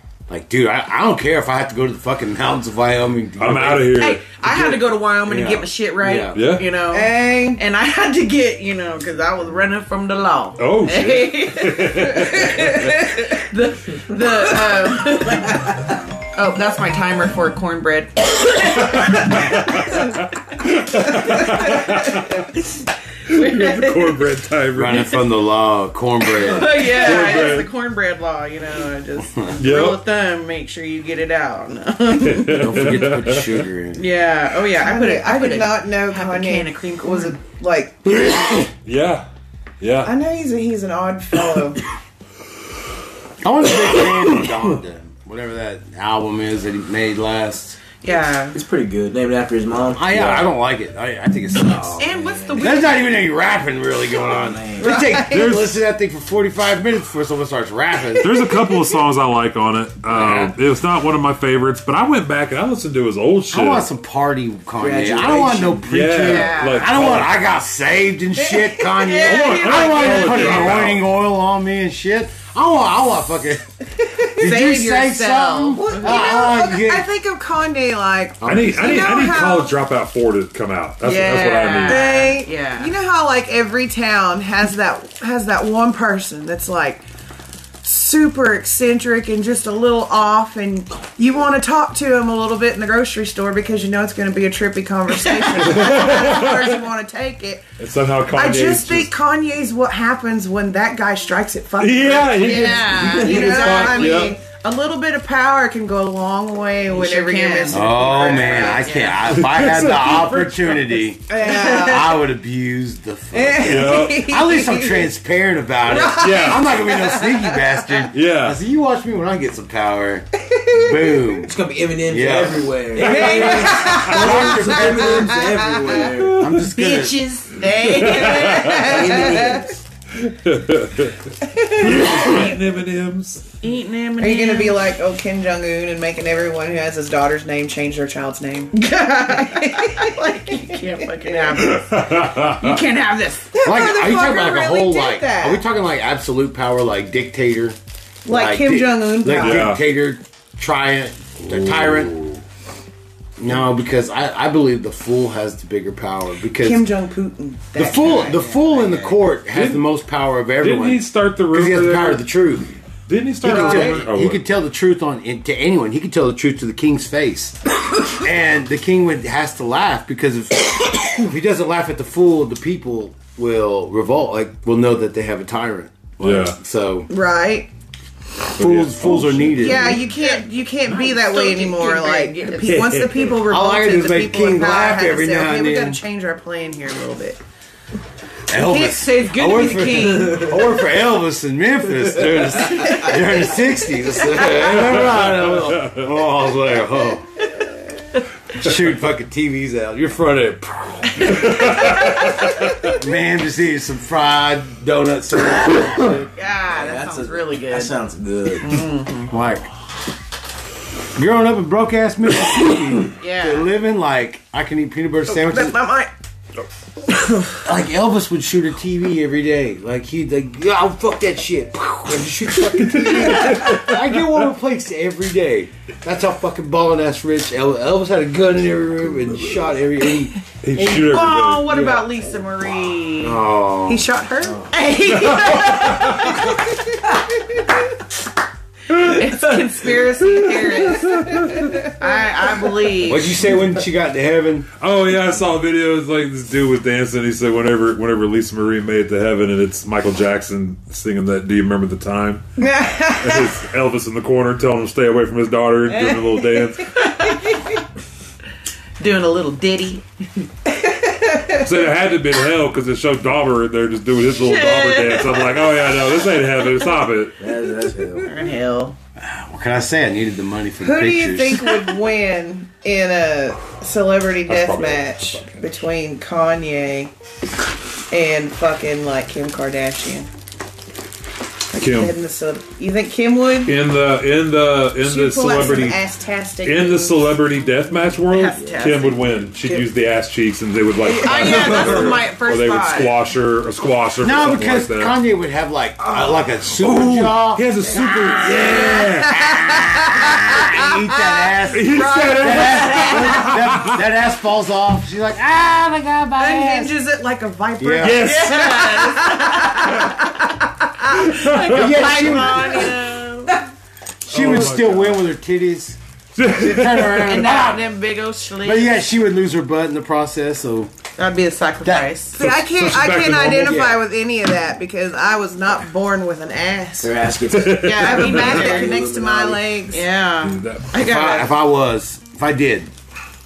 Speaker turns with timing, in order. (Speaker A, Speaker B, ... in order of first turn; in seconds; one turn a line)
Speaker A: 0.3-6.4
Speaker B: 3.4-4.2
Speaker C: 4.0-15.8
Speaker B: 6.3-6.7
Speaker D: 6.9-7.6
Speaker B: 10.6-13.0
Speaker C: 16.3-20.1
Speaker B: 18.9-22.5
Speaker B: 23.3-25.2
Speaker C: 23.3-24.2
Speaker A: 24.7-27.5
Speaker C: 26.4-32.8
Speaker B: 26.8-27.7
Speaker B: 29.6-30.0
Speaker B: 32.2-33.6
Speaker A: 32.5-34.0
Speaker C: 33.9-37.4
Speaker D: 34.8-38.4
Speaker B: 38.9-39.2
Speaker B: 39.8-40.1
Speaker D: 40.0-41.8
Speaker A: 43.4-47.8
Speaker C: 48.0-48.5
Speaker E: 48.1-50.4
Speaker A: 49.9-58.5
Speaker E: 51.6-52.7
Speaker C: 52.0-53.1
Speaker E: 54.3-55.0
Speaker D: 54.8-55.5
Speaker B: 55.2-55.8
Speaker B: 58.2-63.9
Speaker A: 60.1-60.5
Speaker A: 63.5-77.1
Speaker E: 64.8-65.9
Speaker B: 65.9-67.3
Speaker C: 66.2-67.0
Speaker C: 69.0-70.7
Speaker B: 69.2-71.1
Speaker C: 74.4-76.2
Speaker D: 75.8-79.8
Speaker A: 78.4-79.0
Speaker B: 78.4-82.1
Speaker C: 81.0-82.9
Speaker D: 81.8-87.0
Speaker D: 87.8-97.6
Speaker B: 95.6-96.8
Speaker B: 97.8-99.1
Speaker D: 98.3-108.9
Speaker B: 101.8-104.4
Speaker C: 102.3-104.3
Speaker E: 103.2-104.0
Speaker C: 106.9-109.4
Speaker A: 107.7-122.7
Speaker B: 109.3-111.0
Speaker D: 111.3-112.3
Speaker D: 113.3-115.1
Speaker B: 113.6-114.3
Speaker D: 115.9-117.9
Speaker B: 116.0-116.7
Speaker B: 118.1-118.6
Speaker D: 120.5-121.2
Speaker E: 121.4-126.5
Speaker B: 123.0-124.9
Speaker D: 123.0-125.6
Speaker C: 123.3-123.6
Speaker B: 126.1-126.7
Speaker A: 126.4-127.2
Speaker C: 126.6-129.6
Speaker B: 127.8-129.2
Speaker E: 128.7-129.8
Speaker D: 129.4-129.7
Speaker B: 130.2-131.2
Speaker D: 131.4-132.2
Speaker B: 131.7-133.4
Speaker C: 133.6-134.8
Speaker D: 134.2-141.6
Speaker C: 139.3-143.5
Speaker B: 141.5-142.8
Speaker D: 143.5-145.6
Speaker A: 143.6-152.4
Speaker D: 148.2-149.7
Speaker B: 149.3-149.8
Speaker B: 151.5-152.3
Speaker A: 153.4-156.9
Speaker D: 156.6-158.4
Speaker A: 157.8-162.8
Speaker C: 158.3-159.1
Speaker B: 159.5-159.9
Speaker B: 160.6-162.3
Speaker B: 163.1-164.4
Speaker A: 163.4-177.1
Speaker D: 163.4-164.0
Speaker B: 176.2-176.6
Speaker D: 177.1-177.7
Speaker B: 178.6-179.9
Speaker A: 178.6-180.0
Speaker D: 179.6-187.4
Speaker C: 179.6-183.0
Speaker A: 182.6-186.0
Speaker A: 188.5-197.3
Speaker C: 188.5-190.6
Speaker B: 194.6-196.0
Speaker A: 198.5-206.3
Speaker B: 201.4-202.1
Speaker C: 206.3-208.0
Speaker E: 206.7-208.8
Speaker C: 208.6-209.3
Speaker A: 209.3-209.7
Speaker A: 211.1-215.8
Speaker C: 213.2-213.7
Speaker D: 215.3-216.1
Speaker D: 217.2-217.6
Speaker A: 217.6-232.2
Speaker B: 222.8-224.2
Speaker B: 230.6-231.7
Speaker C: 230.8-233.4
Speaker A: 233.1-234.1
Speaker D: 233.9-236.3
Speaker C: 234.7-236.5
Speaker B: 235.1-236.4
Speaker B: 238.9-241.9
Speaker C: 238.9-243.5
Speaker A: 243.0-244.7
Speaker B: 244.8-252.4
Speaker D: 252.6-253.6
Speaker B: 253.2-257.1
Speaker D: 256.1-256.7
Speaker C: 257.0-257.4
Speaker C: 259.0-260.1
Speaker D: 260.7-261.7
Speaker B: 261.6-267.4
Speaker C: 264.3-265.6
Speaker E: 267.4-268.4
Speaker C: 268.2-269.0
Speaker A: 269.2-271.7
Speaker D: 270.8-277.1
Speaker B: 274.5-275.6
Speaker D: 278.1-280.3
Speaker D: 281.7-283.8
Speaker B: 281.8-282.1
Speaker B: 283.6-286.0
Speaker D: 285.0-287.4
Speaker B: 286.6-295.2
Speaker C: 288.3-289.2
Speaker E: 288.6-288.9
Speaker C: 291.0-293.1
Speaker D: 291.4-292.0
Speaker A: 294.2-306.9
Speaker B: 296.7-299.9
Speaker D: 297.9-300.8
Speaker D: 301.5-303.1
Speaker B: 301.7-304.0
Speaker D: 306.4-310.5
Speaker A: 307.8-308.3
Speaker B: 308.0-309.0
Speaker C: 308.1-310.5
Speaker C: 311.0-313.6
Speaker B: 311.2-312.0
Speaker A: 311.5-312.9
Speaker A: 314.2-317.9
Speaker B: 314.3-315.3
Speaker B: 316.4-317.6
Speaker C: 317.2-319.0
Speaker A: 318.6-320.9
Speaker C: 321.2-322.4
Speaker A: 321.8-322.1
Speaker D: 322.3-330.0
Speaker B: 322.4-323.8
Speaker A: 323.3-324.0
Speaker E: 327.0-329.8
Speaker B: 327.5-328.5
Speaker C: 327.9-329.0
Speaker C: 329.9-331.5
Speaker B: 330.4-330.9
Speaker A: 330.9-332.9